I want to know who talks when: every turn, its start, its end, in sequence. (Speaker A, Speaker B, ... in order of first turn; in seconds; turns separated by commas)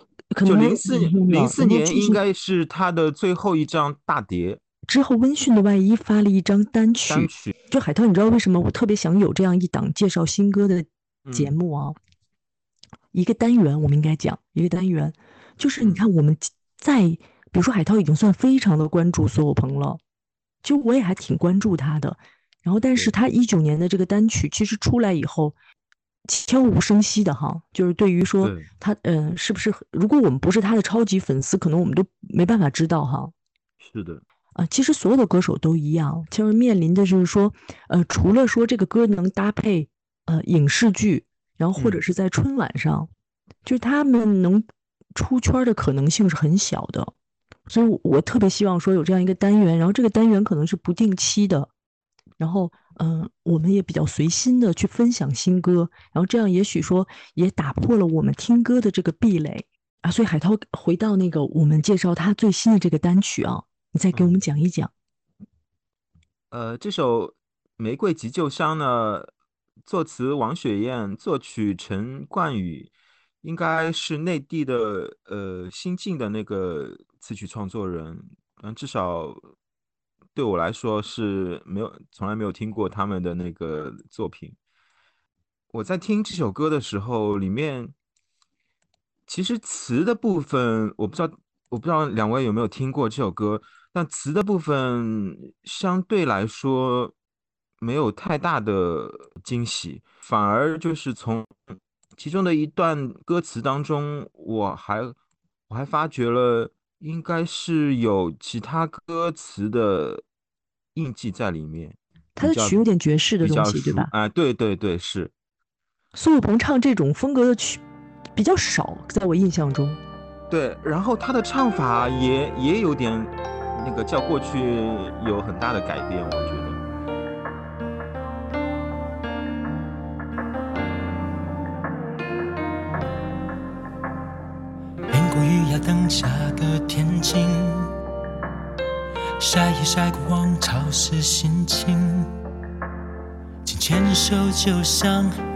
Speaker A: 0.3-2.2, Speaker B: 0.4-4.6, Speaker A: 4.9-11.9, Speaker B: 7.1-7.5, Speaker B: 11.2-11.5, Speaker A: 13.1-20.0, Speaker A: 20.6-25.6, Speaker A: 26.2-33.3, Speaker B: 28.4-28.7, Speaker B: 33.8-34.2, Speaker A: 34.5-43.1, Speaker A: 43.6-47.1, Speaker A: 47.7-51.7, Speaker A: 52.4-64.9, Speaker B: 66.5-69.3, Speaker B: 69.8-72.9, Speaker B: 73.4-79.4, Speaker B: 80.3-84.5, Speaker B: 85.7-87.9, Speaker B: 89.3-97.1, Speaker B: 97.8-101.5, Speaker B: 102.2-105.2, Speaker B: 105.7-110.2, Speaker B: 110.9-112.8, Speaker A: 112.3-114.1, Speaker B: 113.4-115.3, Speaker A: 116.1-117.8, Speaker A: 118.3-120.0, Speaker B: 120.5-126.8, Speaker C: 135.1-137.9, Speaker C: 139.4-142.2, Speaker C: 143.6-145.3